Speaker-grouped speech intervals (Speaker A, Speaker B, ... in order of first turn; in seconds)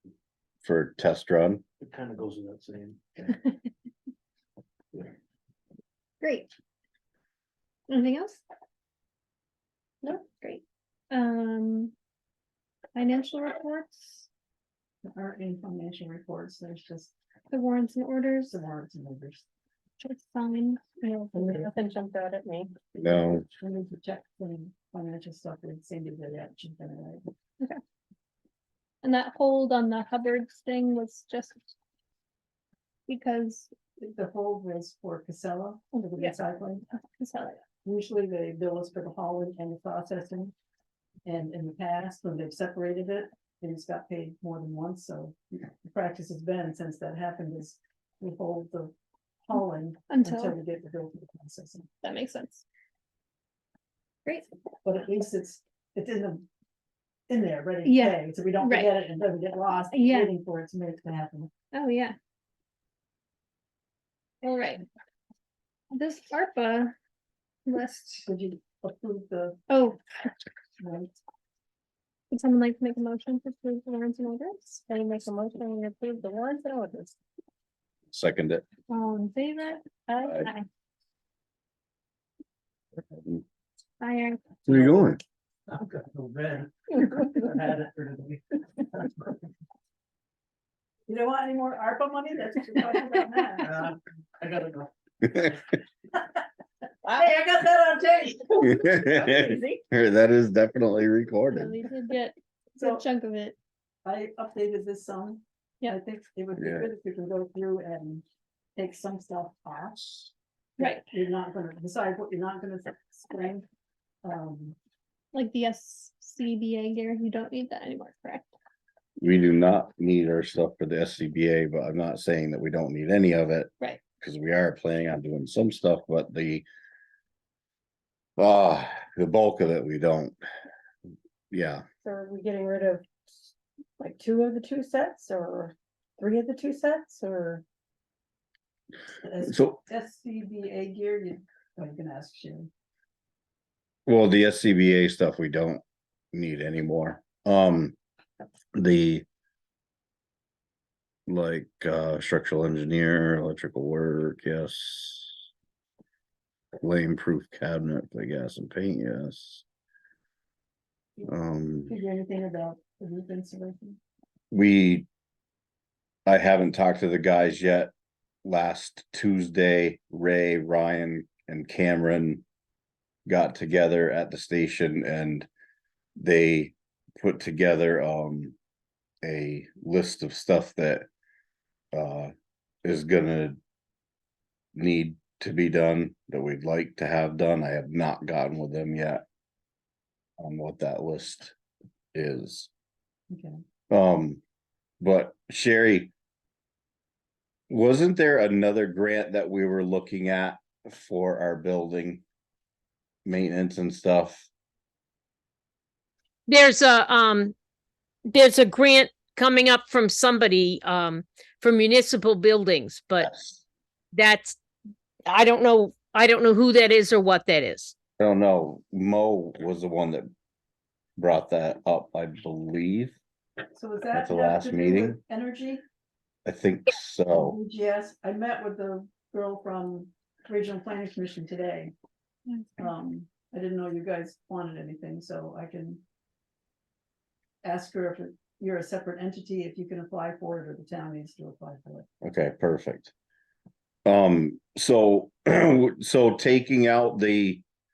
Speaker A: 0.6-1.6, 23.0-23.4, 78.1-78.6, 84.7-85.2, 98.7-101.8, 106.6-106.9, 119.2-126.6, 128.4-130.4, 131.5-131.8, 139.4-139.8, 144.1-145.8, 146.3-147.9, 148.8-149.2, 151.3-155.3, 156.8-159.6, 161.3-161.9, 164.5-165.1, 166.2-167.9, 168.4-172.4, 173.2-175.5, 176.2-178.6, 179.2-181.1, 181.9-182.3, 182.8-183.6, 184.7-189.2, 190.4-191.5, 192.1-192.7, 193.9-194.4, 195.0-196.1, 197.7-202.2, 203.2-204.5, 213.2-213.6, 218.2-220.3, 221.2-223.2, 224.1-225.2, 226.4-227.6, 242.2-243.1, 244.1-247.6
Speaker B: 1.8-3.2, 85.7-88.4, 89.0-89.2, 93.6-94.9
Speaker C: 6.2-6.5, 7.9-8.4, 10.0-11.9, 12.9-14.3, 17.5-18.6, 20.0-21.5, 29.0-31.7, 33.1-33.7, 36.0-36.4, 36.9-37.6, 50.1-50.5, 52.0-52.6, 57.8-58.9, 59.9-60.3, 61.7-62.1, 64.4-64.8, 65.9-66.9, 67.7-68.3, 69.7-70.0, 72.3-74.9, 78.9-80.7, 84.0-85.1, 101.5-103.6, 115.3-118.5, 232.5-232.8
Speaker D: 15.0-17.1, 18.4-19.4, 22.9-27.2, 34.0-36.9, 37.8-40.5, 41.2-48.9, 49.5-51.9, 54.8-56.5, 57.3-61.5, 68.2-69.6, 70.8-71.2, 91.1-93.8, 97.1-99.4, 102.8-103.0, 104.0-108.2, 108.8-113.7, 114.2-114.8, 139.2-142.7, 161.9-164.0, 193.3-193.6, 223.7-225.8, 227.3-231.9, 232.8-236.0, 237.6-242.1
Speaker E: 21.4-22.7, 74.9-77.1, 132.0-137.6
Speaker F: 206.5-207.5, 208.3-213.3, 214.1-214.6, 215.3-217.9